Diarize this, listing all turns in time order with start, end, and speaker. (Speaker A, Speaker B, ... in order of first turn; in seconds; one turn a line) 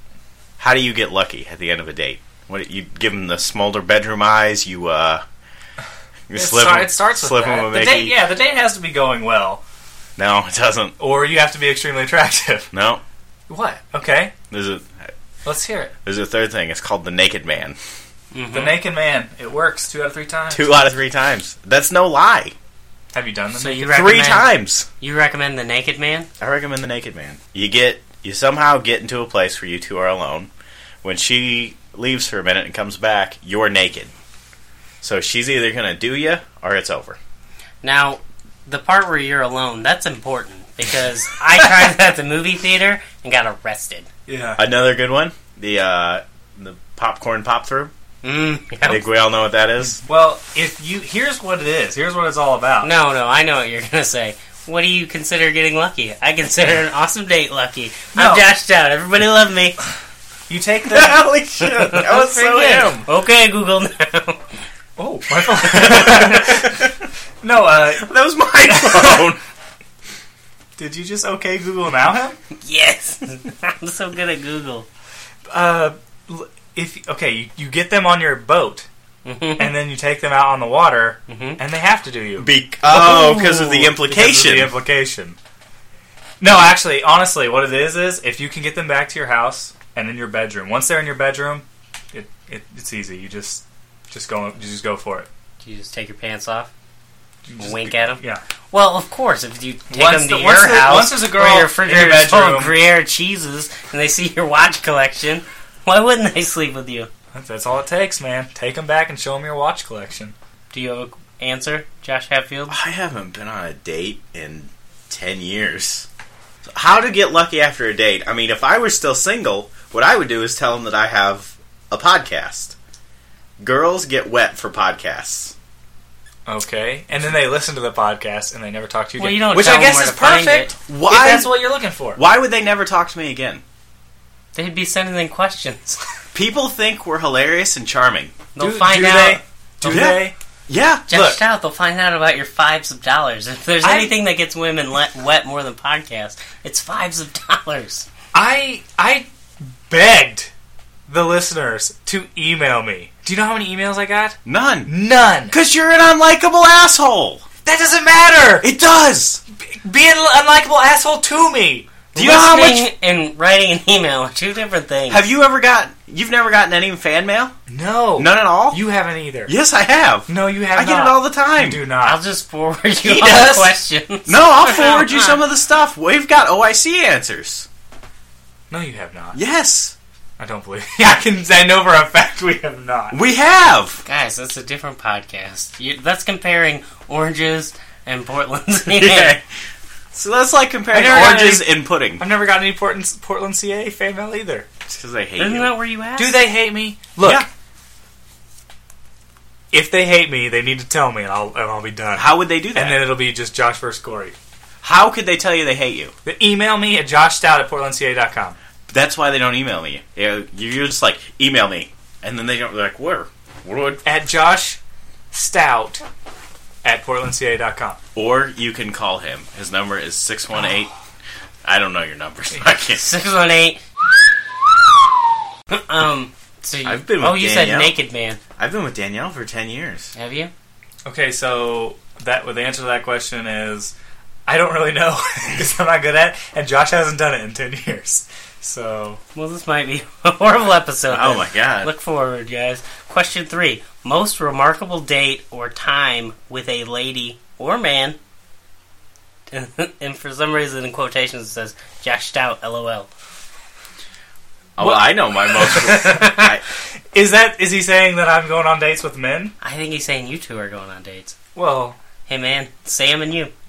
Speaker A: 0.6-5.2
Speaker A: 6.3-8.2
Speaker B: 6.3-9.6
Speaker A: 10.2-10.9
Speaker B: 11.0-12.7
Speaker A: 12.7-13.0
Speaker B: 13.5-14.3
Speaker A: 14.5-15.1
Speaker B: 15.4-15.9
Speaker A: 16.0-17.8
Speaker C: 18.3-18.8
Speaker B: 18.5-20.8
Speaker A: 20.5-22.5
Speaker B: 23.1-23.9
Speaker C: 23.6-26.3
Speaker A: 23.8-24.9
Speaker A: 26.4-30.5
Speaker A: 31.0-34.1
Speaker A: 35.0-37.2
Speaker C: 37.8-44.1
Speaker B: 44.3-44.6
Speaker A: 44.6-47.9
Speaker C: 48.2-49.0
Speaker A: 48.9-50.0
Speaker B: 50.0-52.9
Speaker C: 52.8-59.8
Speaker B: 58.1-58.5
Speaker B: 60.5-61.2
Speaker A: 60.9-63.0
Speaker C: 61.6-64.4
Speaker B: 65.0-66.8
Speaker A: 65.7-66.9
Speaker B: 67.4-69.3
Speaker A: 68.0-69.4
Speaker B: 70.8-72.4
Speaker C: 72.6-74.9
Speaker B: 75.5-78.9
Speaker C: 79.2-79.7
Speaker B: 79.6-85.4
Speaker C: 81.3-81.6
Speaker A: 82.4-84.7
Speaker B: 86.4-95.3
Speaker C: 95.6-96.7
Speaker B: 97.5-98.4
Speaker C: 97.6-107.1
Speaker B: 99.9-102.7
Speaker B: 107.3-110.3
Speaker C: 110.7-112.8
Speaker A: 112.7-116.1
Speaker A: 116.7-122.8
Speaker A: 123.6-125.5
Speaker B: 126.5-132.2
Speaker C: 129.2-130.7
Speaker A: 130.8-131.5
Speaker A: 132.1-133.6
Speaker C: 134.5-136.0
Speaker A: 136.3-138.4
Speaker C: 138.5-139.4
Speaker B: 138.6-140.3
Speaker A: 139.8-141.1
Speaker C: 141.1-148.1
Speaker B: 141.1-141.4
Speaker B: 143.8-144.2
Speaker B: 148.3-150.5
Speaker B: 151.1-155.5
Speaker A: 154.4-154.9
Speaker A: 155.5-157.4
Speaker B: 157.6-158.7
Speaker A: 158.6-159.4
Speaker B: 159.6-162.5
Speaker A: 162.1-162.8
Speaker C: 162.1-165.2
Speaker A: 165.1-167.5
Speaker B: 167.7-169.5
Speaker A: 168.2-168.8
Speaker A: 169.5-171.8
Speaker B: 170.3-172.2
Speaker C: 172.0-175.4
Speaker B: 173.0-173.7
Speaker A: 174.3-177.7
Speaker B: 178.7-179.4
Speaker A: 179.3-179.9
Speaker B: 180.4-183.2
Speaker A: 183.1-184.0
Speaker C: 184.1-189.4
Speaker A: 188.9-189.4
Speaker A: 190.1-192.2
Speaker B: 190.9-194.7
Speaker A: 194.9-195.7
Speaker C: 195.4-196.4
Speaker B: 196.2-197.4
Speaker A: 197.2-197.5
Speaker B: 199.7-204.3
Speaker A: 202.2-203.0
Speaker A: 204.8-206.1
Speaker B: 206.2-208.6
Speaker A: 208.9-214.0
Speaker B: 214.0-214.8
Speaker B: 215.3-216.0
Speaker B: 216.8-218.0
Speaker A: 218.1-220.9
Speaker A: 221.6-223.0
Speaker C: 223.0-223.8
Speaker C: 225.7-228.4
Speaker A: 226.8-227.9
Speaker A: 228.6-230.1
Speaker C: 230.1-230.5
Speaker B: 231.0-233.9
Speaker B: 234.5-239.2
Speaker C: 239.3-248.2
Speaker A: 241.1-241.9
Speaker C: 249.5-253.1
Speaker A: 254.8-256.6
Speaker B: 254.8-256.5
Speaker B: 257.1-259.5
Speaker C: 259.6-261.4
Speaker B: 261.5-262.0
Speaker C: 262.3-263.5